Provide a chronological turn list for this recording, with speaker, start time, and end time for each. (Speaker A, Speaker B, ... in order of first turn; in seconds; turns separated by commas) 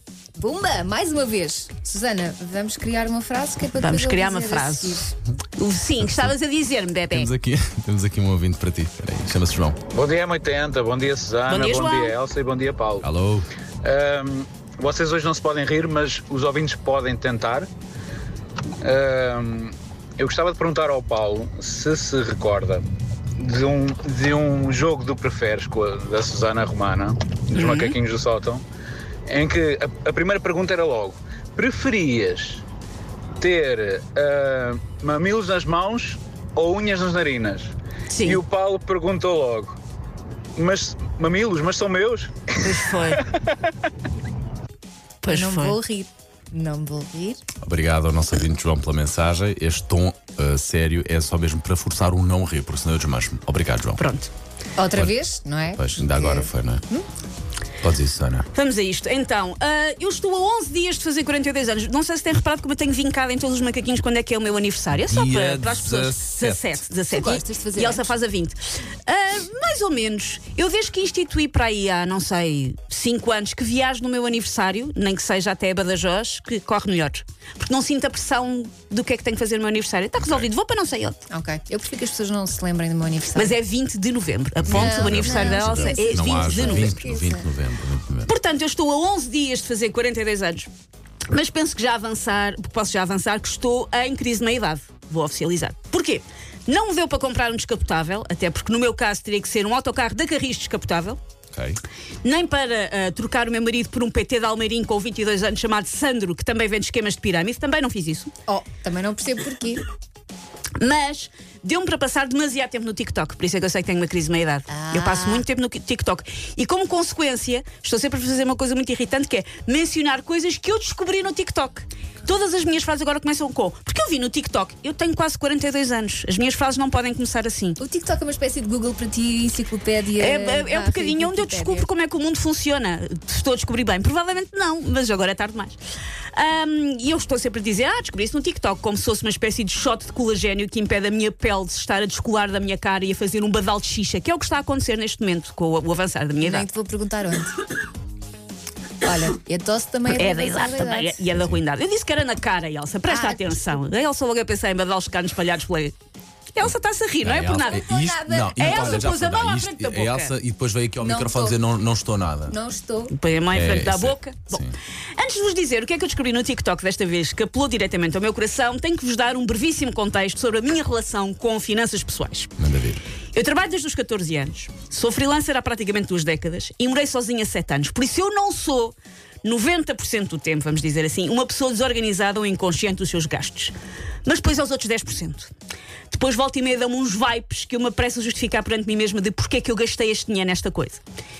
Speaker A: 0.3-5.0, Speaker B: 3.8-7.3, Speaker C: 6.0-6.3, Speaker C: 7.1-9.8, Speaker D: 9.9-13.0, Speaker B: 11.5-12.2, Speaker C: 13.0-13.5, Speaker D: 13.8-17.7, Speaker D: 18.8-22.8, Speaker D: 23.4-28.6, Speaker B: 27.5-27.9, Speaker D: 29.3-32.6, Speaker D: 33.4-37.7, Speaker B: 38.1-38.4, Speaker D: 38.2-39.8, Speaker D: 40.6-42.7, Speaker B: 42.6-43.2, Speaker B: 45.2-45.8, Speaker A: 45.3-47.4, Speaker C: 47.6-54.0, Speaker B: 54.0-54.3, Speaker A: 54.8-57.1, Speaker C: 55.8-56.8, Speaker C: 57.8-58.5, Speaker B: 58.5-81.2, Speaker C: 64.9-66.8, Speaker A: 67.1-68.1, Speaker C: 80.2-80.5, Speaker A: 81.3-83.6, Speaker B: 83.3-87.0, Speaker C: 84.6-88.3, Speaker A: 84.7-87.5, Speaker B: 88.2-90.7, Speaker B: 91.3-101.2, Speaker C: 101.5-101.8, Speaker B: 102.2-108.3, Speaker A: 108.5-109.8, Speaker B: 110.8-127.8, Speaker A: 114.7-115.4, Speaker A: 127.8-131.9, Speaker B: 130.2-135.8, Speaker B: 136.3-146.7, Speaker A: 146.4-147.6, Speaker A: 149.0-151.2, Speaker B: 150.1-155.9, Speaker A: 153.1-153.5, Speaker B: 156.5-157.9, Speaker C: 157.2-162.5, Speaker A: 157.6-159.1, Speaker B: 158.6-160.3, Speaker A: 161.0-161.6, Speaker A: 162.5-163.1, Speaker B: 163.1-172.5, Speaker C: 163.5-164.8, Speaker C: 172.6-173.0, Speaker B: 173.3-185.5, Speaker B: 186.1-191.0